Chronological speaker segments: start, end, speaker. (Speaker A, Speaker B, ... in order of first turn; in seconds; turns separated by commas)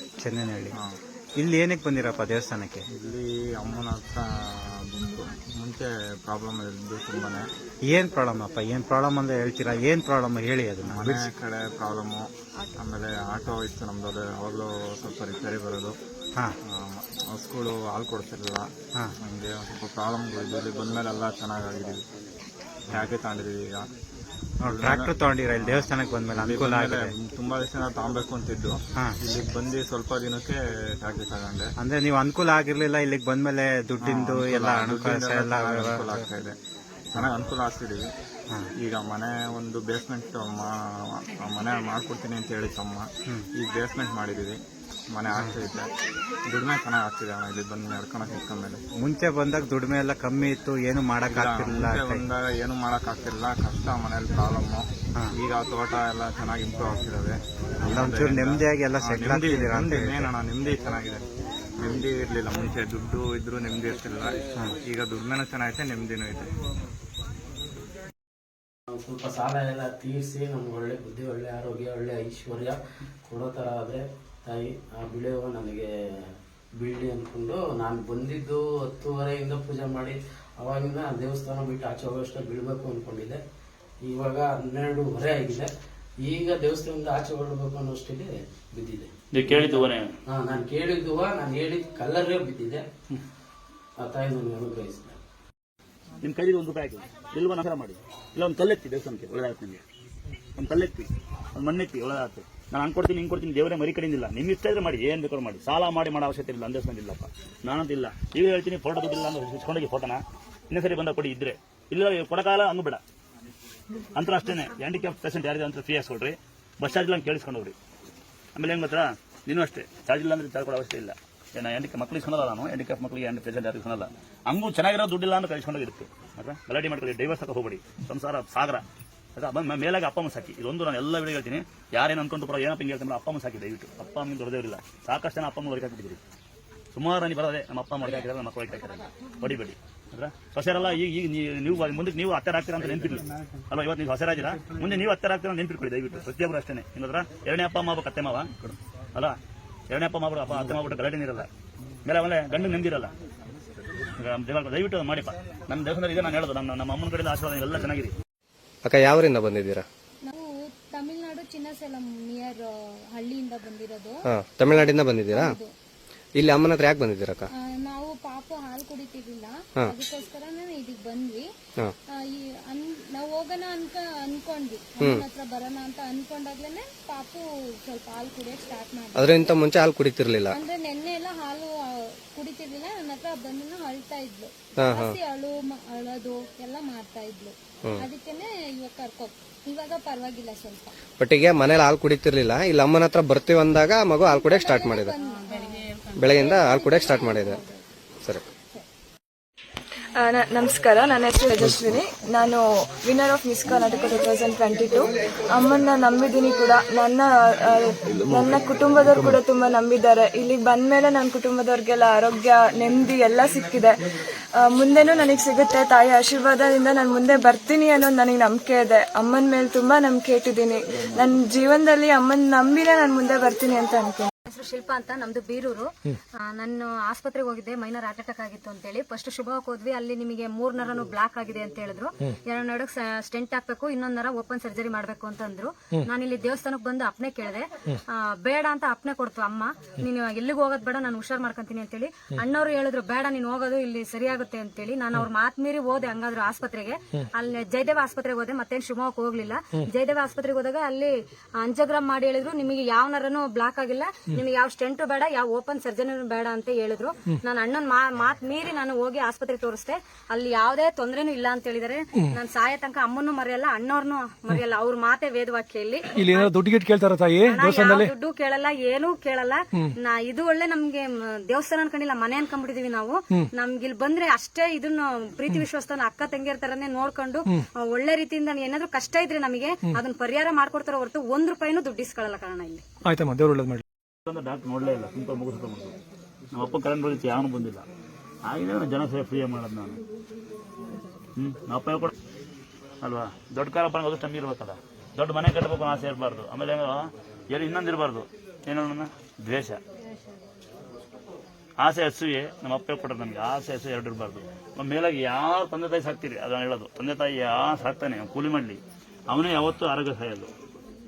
Speaker A: 0.2-0.7, Speaker A: 1.4-2.8, Speaker B: 2.9-7.5, Speaker A: 7.9-11.3, Speaker B: 10.8-15.9, Speaker B: 16.6-18.7, Speaker B: 19.2-22.0, Speaker B: 22.9-23.9, Speaker A: 24.6-27.1, Speaker B: 24.6-31.7, Speaker A: 31.8-36.3, Speaker B: 34.0-36.5, Speaker B: 37.1-38.1, Speaker B: 38.8-44.6, Speaker B: 45.1-45.9, Speaker B: 46.5-48.8, Speaker A: 49.0-52.2, Speaker B: 51.3-61.2, Speaker A: 57.9-60.3, Speaker B: 61.8-66.5, Speaker C: 68.9-83.4, Speaker C: 84.0-85.7, Speaker C: 86.2-92.8, Speaker D: 89.3-90.1, Speaker C: 94.0-95.2, Speaker D: 96.2-99.8, Speaker D: 100.6-113.0, Speaker D: 114.1-117.7, Speaker D: 118.5-128.8, Speaker D: 129.3-136.2, Speaker D: 136.9-149.4, Speaker D: 149.9-151.5, Speaker D: 152.0-153.1, Speaker D: 154.2-158.1, Speaker E: 158.8-159.8, Speaker F: 160.2-165.7, Speaker E: 164.2-165.6, Speaker E: 166.4-167.5, Speaker F: 167.7-171.5, Speaker F: 172.2-179.4, Speaker E: 175.0-175.2, Speaker E: 179.1-180.6, Speaker F: 180.5-190.9, Speaker E: 184.8-185.2, Speaker E: 187.8-188.1, Speaker E: 191.2-195.2, Speaker F: 194.2-195.8, Speaker E: 196.2-197.6, Speaker F: 196.4-197.6, Speaker G: 200.2-213.9, Speaker G: 214.6-224.3, Speaker H: 224.5-225.9, Speaker H: 226.5-266.5, Speaker I: 266.1-268.1, Speaker H: 267.4-282.8, Speaker I: 283.0-283.8, Speaker D: 284.3-285.9, Speaker D: 286.5-287.8, Speaker D: 288.4-290.0, Speaker D: 291.4-292.1, Speaker D: 293.0-299.8, Speaker D: 301.8-310.5